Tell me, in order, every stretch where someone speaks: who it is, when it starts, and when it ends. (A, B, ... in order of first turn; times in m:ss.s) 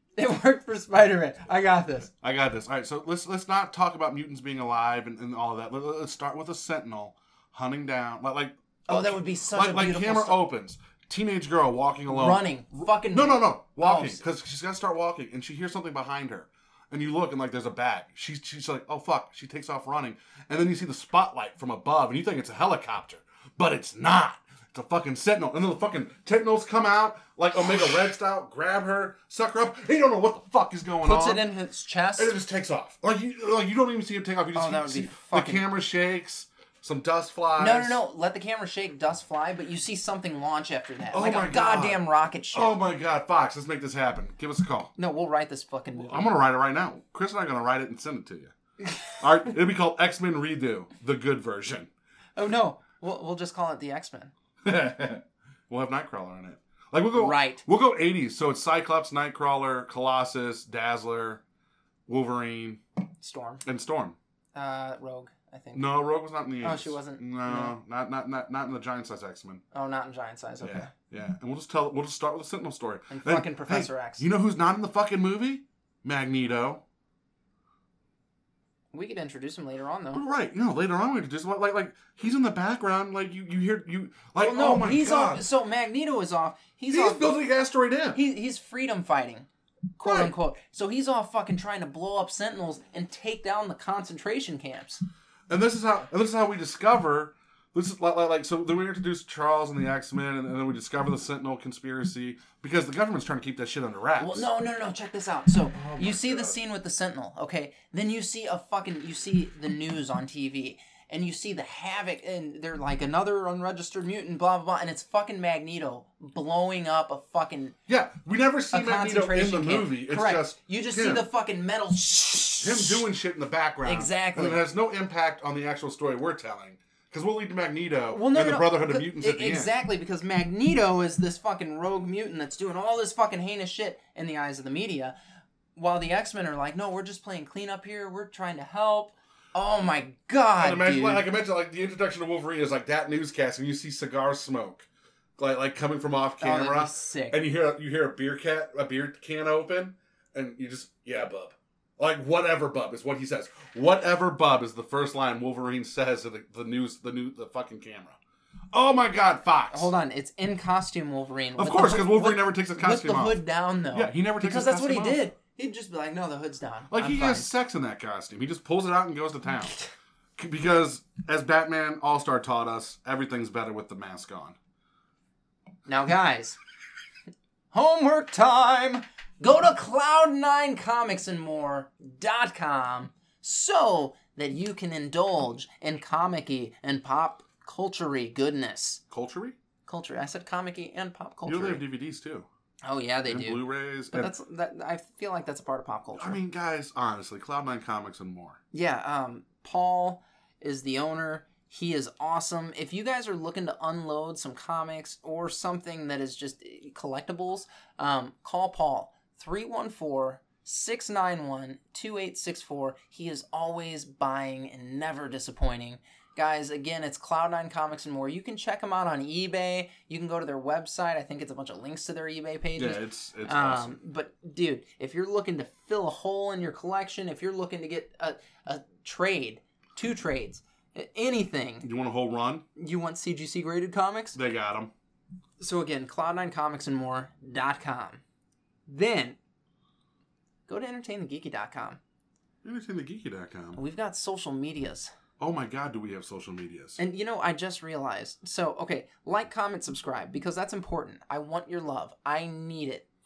0:00.2-0:02.1 A
0:02.2-0:31.4 B
0:08.9-0:10.4 A
0:12.1-0:14.2 A
0:31.0-0:32.3 A
0:32.2-0:38.0 B
0:34.5-0:35.6 A
0:37.6-0:42.8 A
0:41.1-0:44.9 B
0:45.0-0:46.3 A
0:46.0-0:48.5 B
0:49.1-0:51.9 B
0:52.4-0:54.3 A
0:54.6-1:01.4 B
0:57.1-0:57.6 A
1:02.1-1:02.8 B
1:03.2-1:03.6 A
1:03.6-1:04.2 B
1:04.5-1:05.9 A
1:05.7-1:09.6 B
1:06.6-1:07.7 A
1:09.7-1:10.9 A
1:10.6-1:16.8 B
1:13.1-1:14.2 A
1:18.9-1:20.2 A
1:20.1-1:25.4 B
1:24.4-1:27.3 A
1:26.9-1:28.2 B
1:28.1-1:35.0 A
1:30.0-1:30.3 B
1:35.5-1:44.5 B
1:44.2-1:57.8 A
1:45.7-1:46.6 B
1:57.9-2:01.3 B
1:58.7-2:03.1 A
2:02.6-2:09.8 B
2:03.8-2:04.6 A
2:08.1-2:15.1 A
2:15.8-2:21.2 A
2:20.6-2:24.9 B
2:25.4-2:38.2 B
2:26.4-2:27.4 A
2:38.7-2:39.9 B
2:39.7-2:47.5 A
2:41.6-2:43.4 B
2:43.9-2:45.2 B
2:46.9-2:49.8 B
2:50.4-2:54.6 B
2:55.8-2:56.6 A
2:57.7-3:09.0 A
3:09.1-3:09.6 B
3:09.8-3:11.8 A
3:11.4-3:12.5 B
3:12.8-3:16.4 A
3:13.2-3:14.3 B
3:16.2-3:18.6 B
3:18.7-3:51.9 A
3:42.8-3:44.0 B
3:51.8-3:52.6 B
3:52.8-3:54.4 A
3:54.3-3:54.9 B
3:55.6-3:58.2 A
3:58.9-3:59.4 A
4:00.7-4:02.0 A
4:02.6-4:03.8 B
4:03.7-4:05.1 A
4:05.4-4:07.0 B
4:07.0-4:13.0 A